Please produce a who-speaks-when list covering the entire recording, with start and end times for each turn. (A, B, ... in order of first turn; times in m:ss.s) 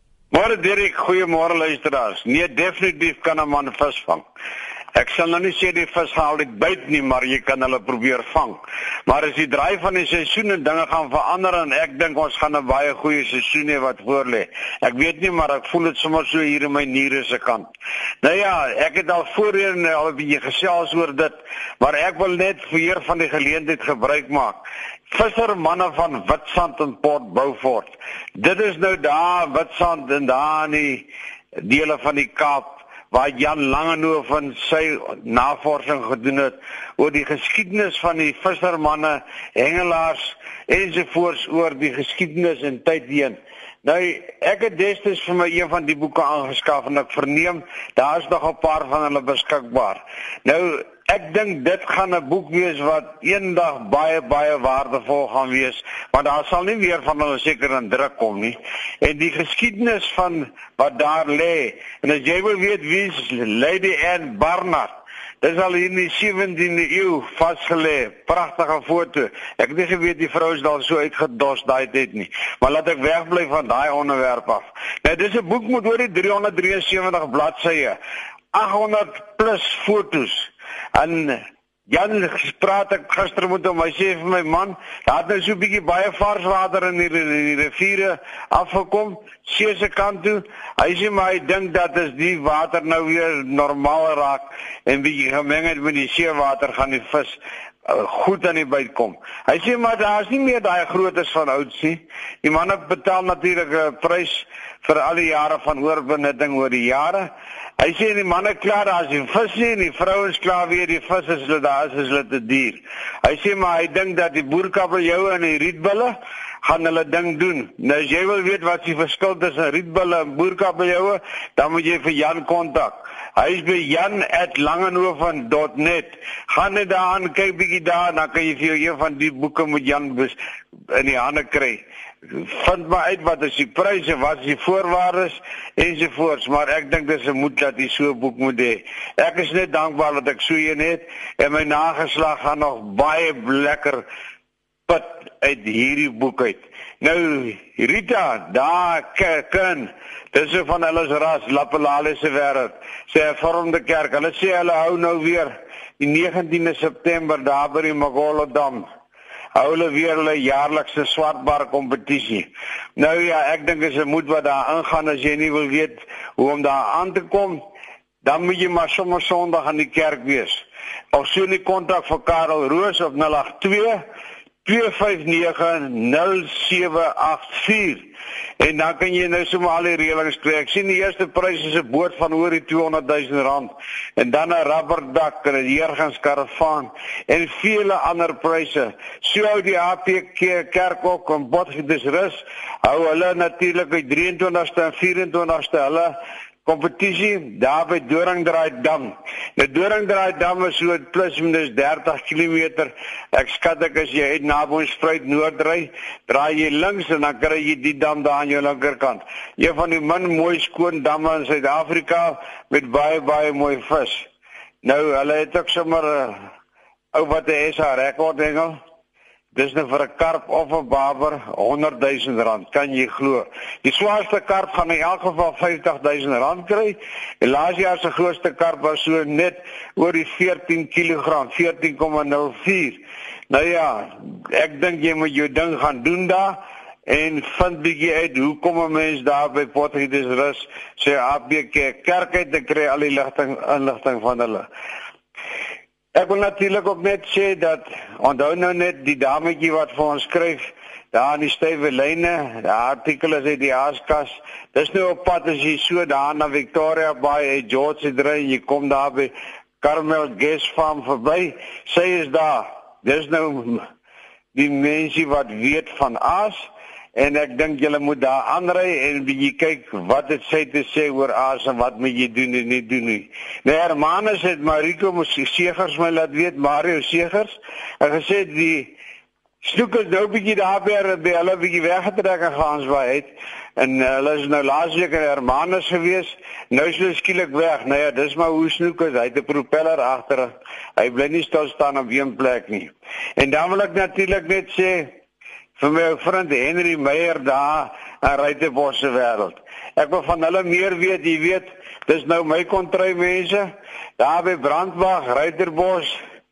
0:00.3-0:04.2 A
0:05.0-0:17.7 A
0:18.2-0:31.1 A
0:31.6-1:04.9 A
1:05.4-1:18.0 A
1:18.5-1:47.2 A
1:47.8-2:10.4 A
2:10.9-2:24.0 A
2:24.9-2:38.8 A
2:39.5-2:42.4 A
2:43.0-2:47.6 A
2:48.2-2:54.0 A
2:54.6-3:34.3 A
3:34.8-3:36.4 A
3:37.1-3:38.8 A
3:39.5-4:04.6 A
4:06.1-4:23.8 A
4:24.5-4:26.6 A
4:27.2-4:39.0 A
4:39.6-4:55.1 A
4:55.8-5:03.7 A
5:04.2-5:06.2 A